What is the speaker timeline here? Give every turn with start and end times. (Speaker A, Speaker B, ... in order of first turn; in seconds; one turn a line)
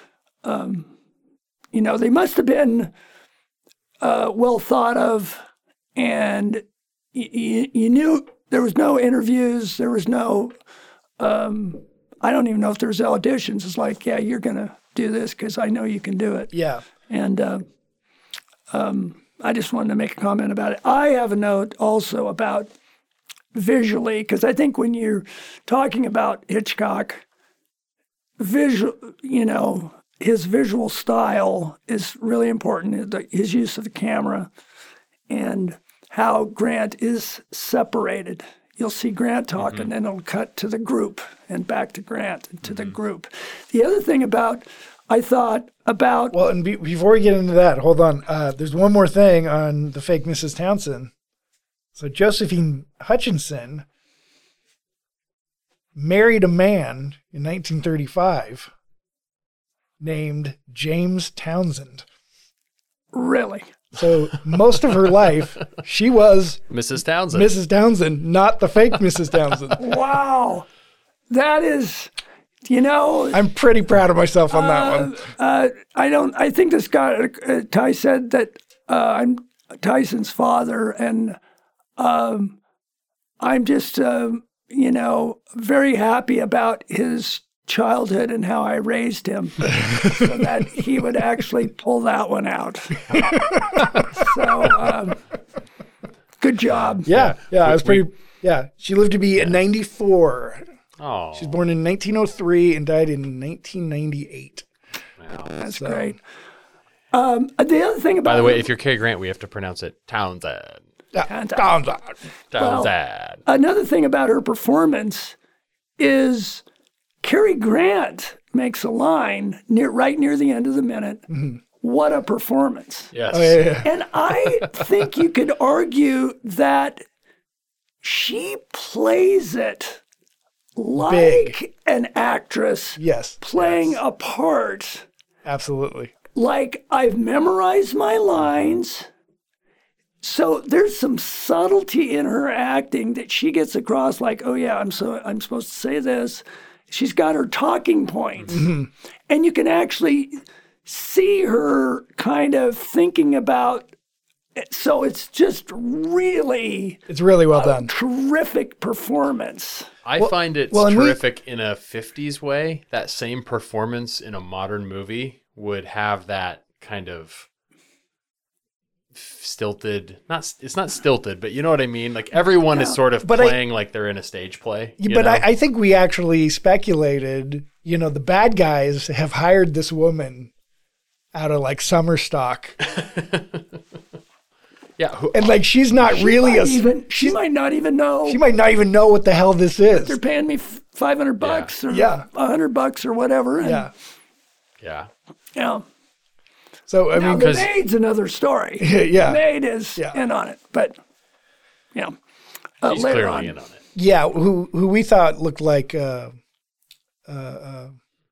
Speaker A: 0.4-0.9
Speaker A: 1.7-2.9
Speaker A: 4.0-5.4
Speaker A: 6.0-10.5
Speaker A: 11.2-16.5
Speaker B: 16.5-16.8
Speaker A: 17.1-17.6
Speaker A: 18.7-22.7
Speaker A: 23.5-27.2
Speaker A: 28.4-34.5
Speaker A: 35.3-46.4
Speaker C: 39.6-39.9
Speaker C: 42.6-43.0
Speaker B: 46.3-51.1
Speaker B: 51.9-53.9
Speaker B: 56.0-58.7
Speaker B: 60.0-62.0
Speaker A: 63.1-63.7
Speaker B: 63.9-66.7
Speaker C: 66.7-67.5
Speaker B: 67.3-69.8
Speaker A: 69.8-70.7
Speaker A: 71.3-72.1
Speaker A: 72.6-73.4
Speaker B: 73.3-75.2
Speaker A: 74.5-81.4
Speaker A: 82.0-82.6
Speaker A: 83.4-93.4
Speaker B: 89.8-90.3
Speaker B: 93.1-93.9
Speaker A: 94.0-95.2
Speaker A: 96.4-97.1
Speaker C: 97.0-98.0
Speaker B: 97.0-100.6
Speaker C: 101.0-101.6
Speaker B: 101.3-104.7
Speaker C: 105.2-105.5
Speaker A: 105.6-106.2
Speaker B: 105.6-106.1
Speaker A: 107.1-108.7
Speaker C: 108.2-110.8
Speaker B: 111.1-112.2
Speaker A: 111.2-111.8
Speaker C: 112.5-113.4
Speaker A: 112.5-112.9
Speaker A: 113.5-115.4
Speaker A: 116.0-116.6
Speaker A: 117.2-121.3
Speaker B: 121.3-121.6
Speaker A: 121.8-123.1
Speaker C: 123.1-123.7
Speaker B: 123.3-123.9
Speaker A: 123.8-127.0
Speaker A: 128.0-130.0
Speaker A: 130.8-135.1
Speaker B: 131.0-131.6
Speaker B: 133.0-133.4
Speaker C: 133.6-134.0
Speaker B: 135.4-136.1
Speaker A: 136.3-139.1
Speaker A: 140.2-148.7
Speaker B: 148.5-148.9
Speaker A: 149.3-153.9
Speaker A: 154.6-159.9
Speaker B: 157.1-157.9
Speaker C: 160.0-167.5
Speaker B: 160.2-161.2
Speaker C: 169.1-175.5
Speaker B: 173.2-173.6
Speaker B: 175.0-180.5
Speaker B: 181.3-182.8
Speaker C: 182.8-183.8
Speaker C: 185.0-185.6
Speaker B: 185.3-187.4
Speaker A: 186.0-188.4
Speaker B: 188.2-190.2
Speaker A: 189.9-193.9
Speaker C: 191.4-191.7
Speaker B: 191.9-192.2
Speaker B: 193.6-193.9
Speaker C: 194.8-195.1
Speaker A: 195.5-195.8
Speaker B: 196.9-197.6
Speaker A: 197.1-201.0
Speaker C: 197.4-197.7
Speaker B: 198.8-199.4
Speaker A: 202.8-203.5
Speaker C: 202.8-203.8
Speaker B: 203.9-206.3
Speaker B: 207.3-207.9